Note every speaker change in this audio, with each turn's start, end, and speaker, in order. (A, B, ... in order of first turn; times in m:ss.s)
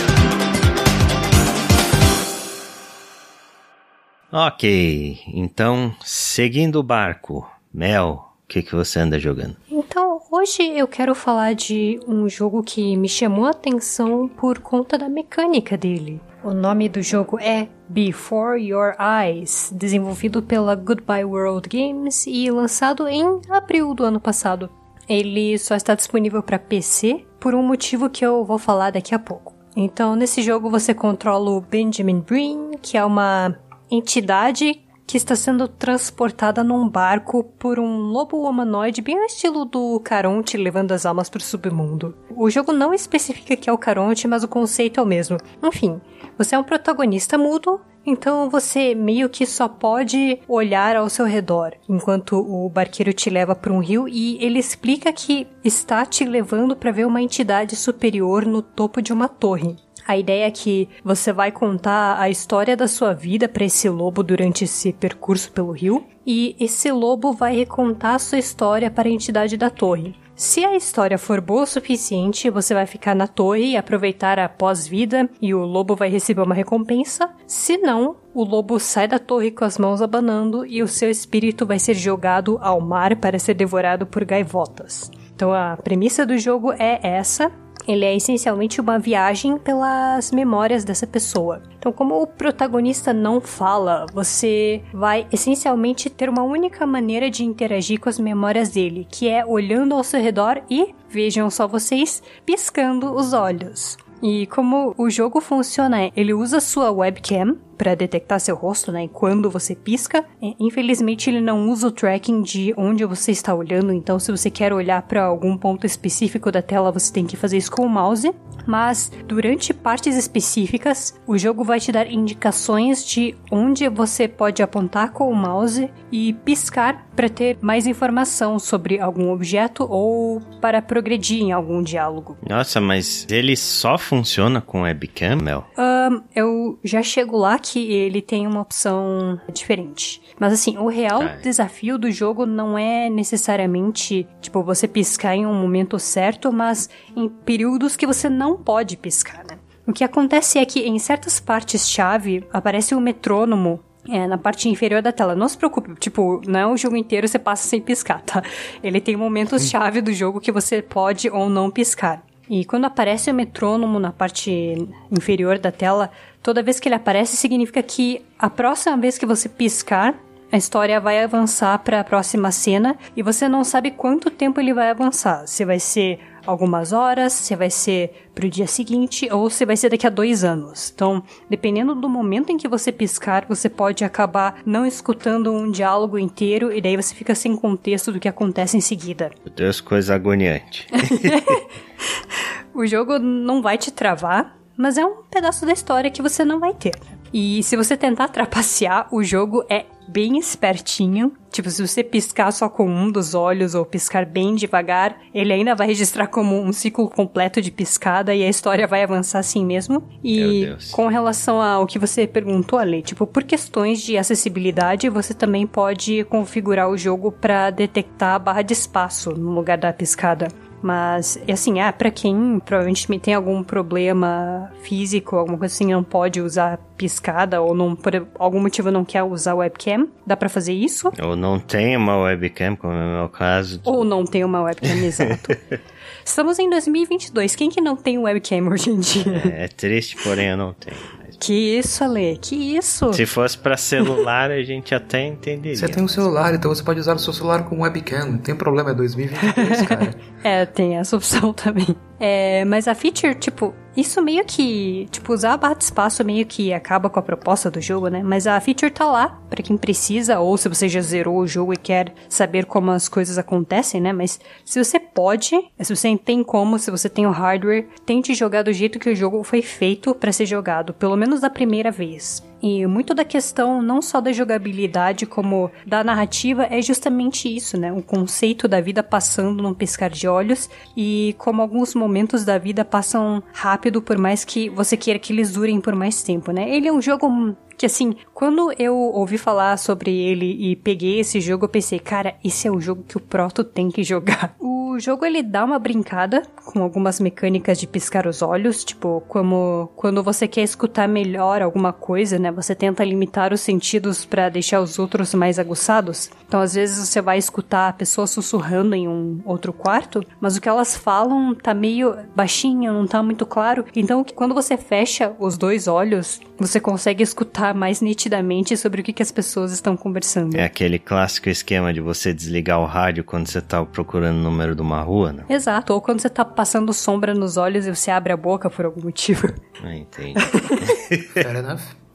0:04.3-0:09.6 A
0:09.7-2:12.4 B
2:12.4-2:15.7 A
2:15.8-3:09.3 B
2:21.2-2:21.4 A
3:09.5-3:11.5 A
3:10.9-3:11.6 B
3:12.7-3:51.1 B
3:30.3-3:31.0 A
3:51.1-3:54.1 A
3:53.8-3:55.6 B
3:56.2-3:59.5 B
3:59.2-4:01.4 A
4:01.4-4:03.2 B
4:03.1-4:06.2 A
4:05.7-4:10.2 C
4:09.4-5:20.7 B
5:20.5-5:25.5 A
5:25.5-5:29.6 B
5:29.8-5:31.4 A
5:30.4-5:30.9 B
5:31.4-5:31.9 C